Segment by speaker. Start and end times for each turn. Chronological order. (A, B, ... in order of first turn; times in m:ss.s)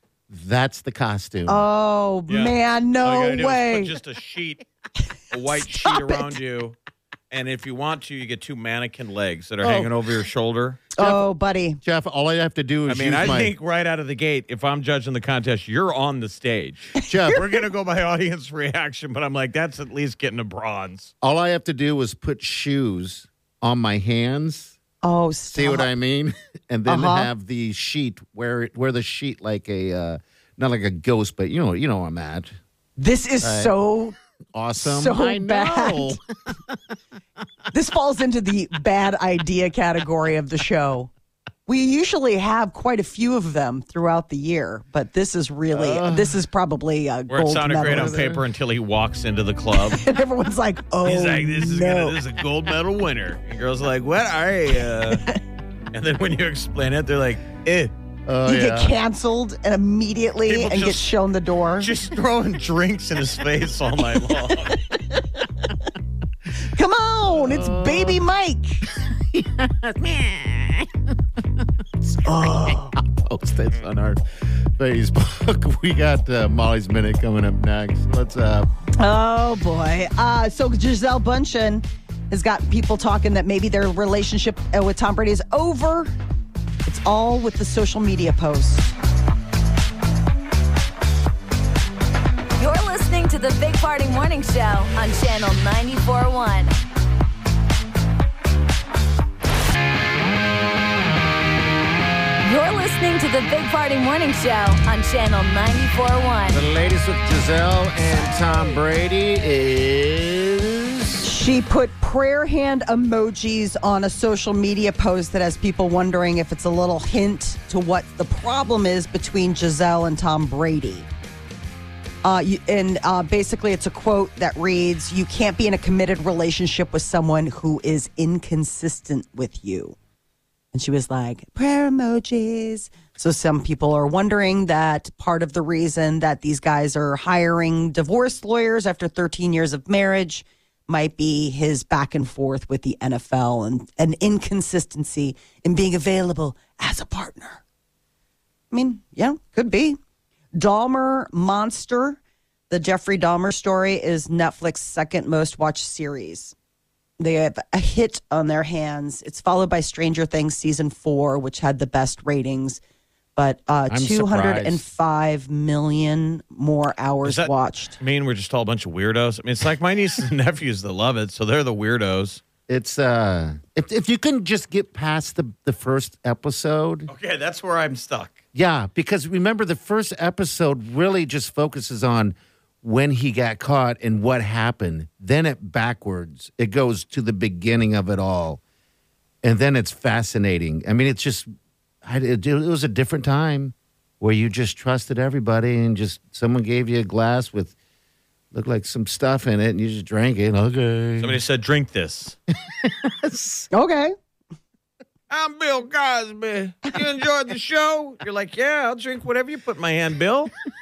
0:00.3-0:01.7 A
0:01.5-0:03.9 B
0:02.3-0:04.7 C
0:05.3-0:06.8 C
0:05.5-0:06.3 B
0:07.3-0:10.9 C
0:09.6-0:10.0 A
0:11.0-0:11.8 B
0:11.0-0:11.3 A
0:11.8-0:13.5 A
0:12.9-0:21.1 C
0:17.1-0:17.5 A
0:21.2-0:24.8 A
0:25.0-0:25.9 B
0:25.5-0:32.6 A
0:26.9-0:27.3 B
0:33.0-0:34.2 B
0:33.4-0:33.7 A
0:34.5-0:36.8 A
0:34.8-0:36.2 B
0:37.7-0:41.1 B
0:41.7-0:48.3 B
0:45.7-0:46.4 A
0:47.3-0:50.0 C
0:47.8-0:48.4 A
0:49.9-0:52.2 B
0:51.0-0:55.3 C
0:55.9-0:57.9 C
0:58.3-0:59.0 A
0:58.4-1:01.9 B
1:00.5-1:01.1 C
1:01.8-1:04.8 C
1:06.6-1:08.8 B
1:07.3-1:08.2 A
1:08.9-1:18.7 A
1:12.3-1:12.9 B
1:19.0-1:26.1 B
1:26.9-1:28.9 B
1:32.6-1:36.7 D
1:42.4-1:46.6 D
1:46.5-1:51.3 A
1:51.2-2:01.1 B
2:02.2-2:10.0 B
2:10.7-2:27.6 B
2:28.7-2:30.0 B
2:30.6-2:32.2 B
2:32.7-2:36.6 B
2:37.2-2:42.8 B
2:43.4-2:48.0 B
2:43.9-2:44.8 A
2:47.2-2:52.4 C
2:52.7-2:57.1 A
2:57.1-2:58.4 C
2:58.5-3:08.6 A
3:09.4-3:11.5 A
3:12.0-3:17.8 A
3:18.5-3:21.4 A
3:21.2-3:22.4 C
3:22.7-3:23.7 A
3:23.7-3:24.1 B
3:25.3-3:30.5 C